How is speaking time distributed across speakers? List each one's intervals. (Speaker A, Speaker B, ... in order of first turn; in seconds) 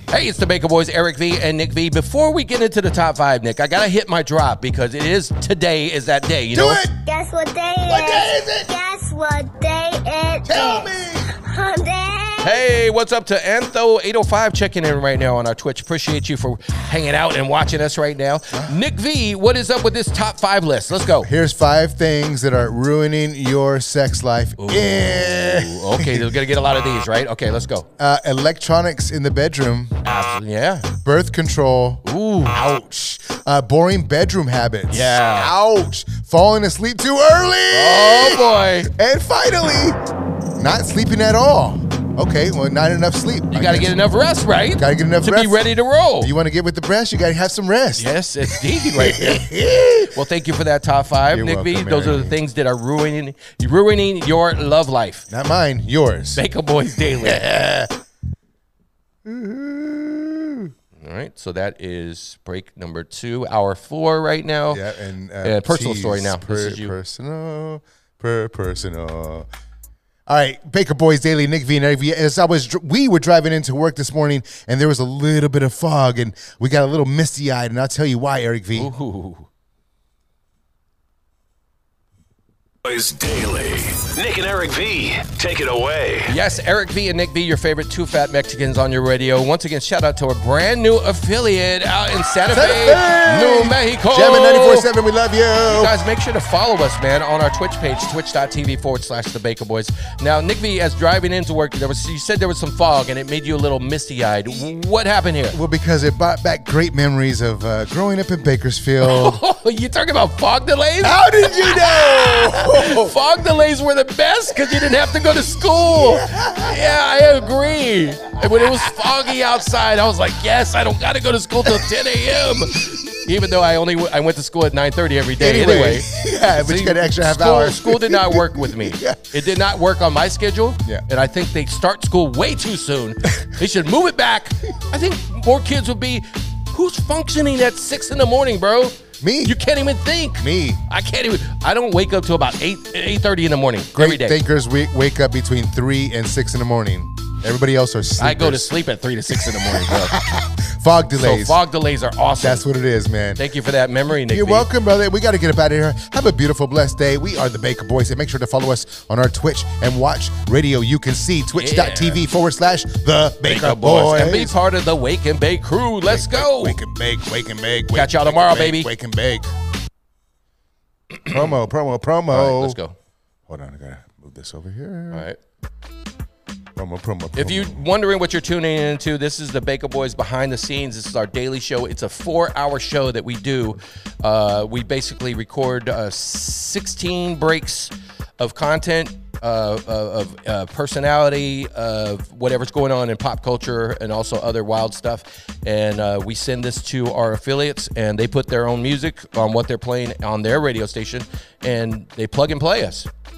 Speaker A: 0.1-6.8, 12.4-21.3, 24.6-27.9, 30.1-30.9, 32.0-32.6, 34.9-35.5, 37.7-38.9, 43.5-46.3, 48.0-49.5, 50.1-55.2, 56.4-57.5, 61.0-64.8, 65.4-66.9, 78.7-79.5, 86.3-94.9, 95.7-105.6, 109.0-144.4, 148.2-150.2, 151.2-152.6, 153.4-154.7, 161.6-162.2, 163.4-166.8, 167.9-168.9, 172.3-172.9, 175.1-175.4, 177.4-203.1
Speaker B: 6.5-7.0, 7.9-8.7, 10.4-11.3, 18.5-18.8, 21.2-26.3, 28.0-30.0, 31.0-40.0, 40.6-44.0, 44.8-45.7, 46.2-50.1, 51.3-52.4, 55.3-57.9, 59.2-60.7, 64.7-69.5, 70.3-78.9, 92.5-95.9, 104.5-104.7, 105.5-109.4, 111.0-113.1, 115.7-116.9, 118.4-119.0, 125.4-129.3, 139.2-139.6, 140.4-140.8, 143.9-148.7, 149.4-151.6, 152.4-153.4, 154.1-164.6, 166.1-169.5, 171.3-172.8, 173.5-175.3, 176.8-177.8
Speaker C: 7.0-12.6
Speaker D: 82.8-86.3